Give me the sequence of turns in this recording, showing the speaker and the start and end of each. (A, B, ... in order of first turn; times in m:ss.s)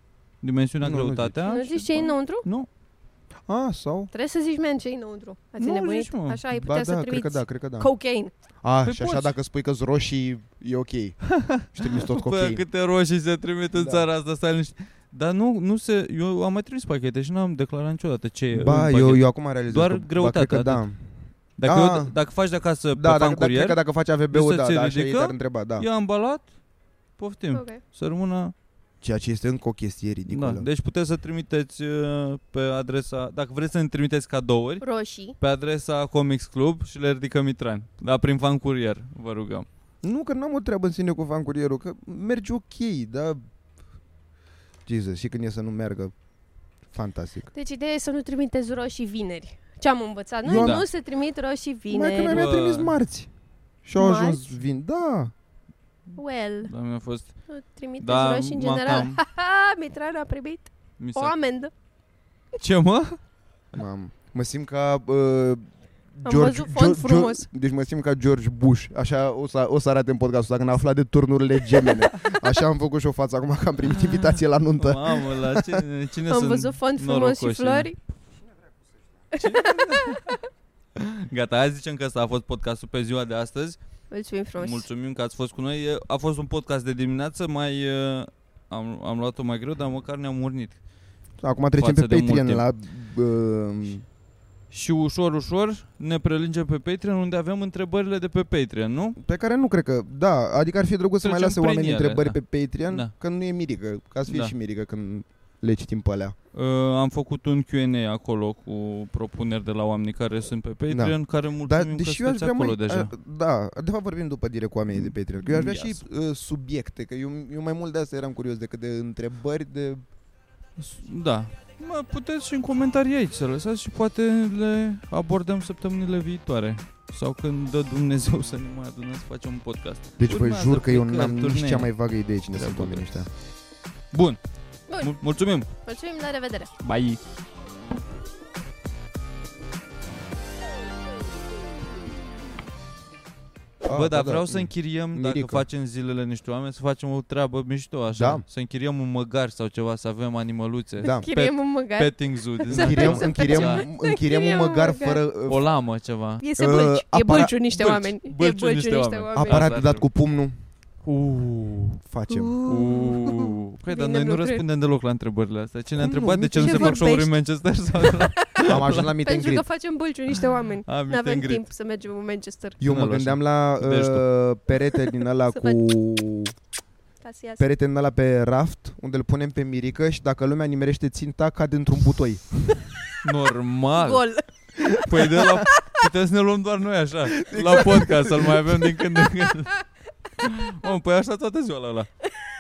0:00.4-0:02.7 A
0:00.8-0:01.4 B
0:01.4-0:02.4 C
0:03.5-0:04.1 B
0:04.1-0:08.3 C
0:05.6-0:06.4 A
0:06.5-0:07.9 B
0:08.6-0:11.2 B
0:08.8-0:09.3 A
0:11.3-0:20.8 A
0:11.7-0:12.6 B
0:13.8-0:14.0 B
0:18.5-0:21.0 B
0:21.6-0:23.8 A
0:21.6-0:22.1 B
0:22.9-0:25.9 B
0:24.3-0:26.5 A
0:27.2-0:28.5 A
0:27.5-0:27.8 C
0:29.0-0:30.6 B
0:30.3-0:34.8 A
0:34.8-0:35.3 C
0:35.4-0:39.7 A
0:40.0-0:43.4 B
0:44.8-0:46.1 B
0:46.9-0:47.5 B
0:47.5-0:52.4 C
0:50.4-0:50.8 B
0:50.5-0:50.8 A
0:51.9-0:53.3 B
0:52.2-0:52.9 A
0:53.8-0:55.3 B
0:54.0-0:54.5 C
0:56.2-0:56.7 C
0:56.6-0:57.3 A
0:57.5-1:01.7 C
0:58.0-0:59.2 A
1:01.0-1:01.3 A
1:02.6-1:03.2 A
1:03.7-1:05.6 B
1:06.2-1:15.8 B
1:06.2-1:07.5 C
1:14.8-1:17.9 A
1:16.3-1:18.0 C
1:19.3-1:20.4 C
1:19.4-1:20.4 A
1:21.0-1:23.8 A
1:24.1-1:24.9 C
1:24.6-1:30.8 A
1:31.4-1:34.0 B
1:31.8-1:32.6 A
1:34.7-1:39.2 A
1:39.2-1:46.3 B
1:41.2-1:42.4 A
1:44.3-1:44.5 A
1:46.5-1:53.1 A
1:50.9-2:00.0 B
1:54.9-1:56.0 A
2:00.8-2:11.9 A
2:10.2-2:13.3 B
2:12.5-2:13.1 A
2:14.1-2:14.4 A
2:14.9-2:15.2 C
2:15.0-2:15.7 A
2:15.8-2:16.7 C
2:16.8-2:17.2 A
2:23.8-2:25.6 B
2:23.9-2:33.8 A
2:28.1-2:28.4 B
2:31.0-2:35.2 C
2:32.7-2:35.6 B
2:35.5-2:36.4 A
2:36.4-2:39.8 C
2:36.6-2:37.5 B
2:37.8-2:40.0 A
2:39.3-2:40.5 B
2:41.0-2:42.0 A
2:42.0-2:42.5 B
2:42.3-2:44.6 C
2:42.6-2:49.1 A
2:46.0-2:47.1 B
2:46.6-2:47.3 C
2:48.0-2:52.8 C
2:48.7-2:49.6 B
2:50.8-2:51.6 A
2:52.8-2:56.5 B
2:52.8-2:54.3 A
2:55.4-2:55.8 C
2:57.2-2:57.6 C
2:57.6-3:02.9 B
3:03.2-3:04.2 A
3:04.0-3:04.5 C
3:04.8-3:05.6 B
3:05.0-3:09.8 A
3:07.4-3:09.0 B
3:10.4-3:12.1 A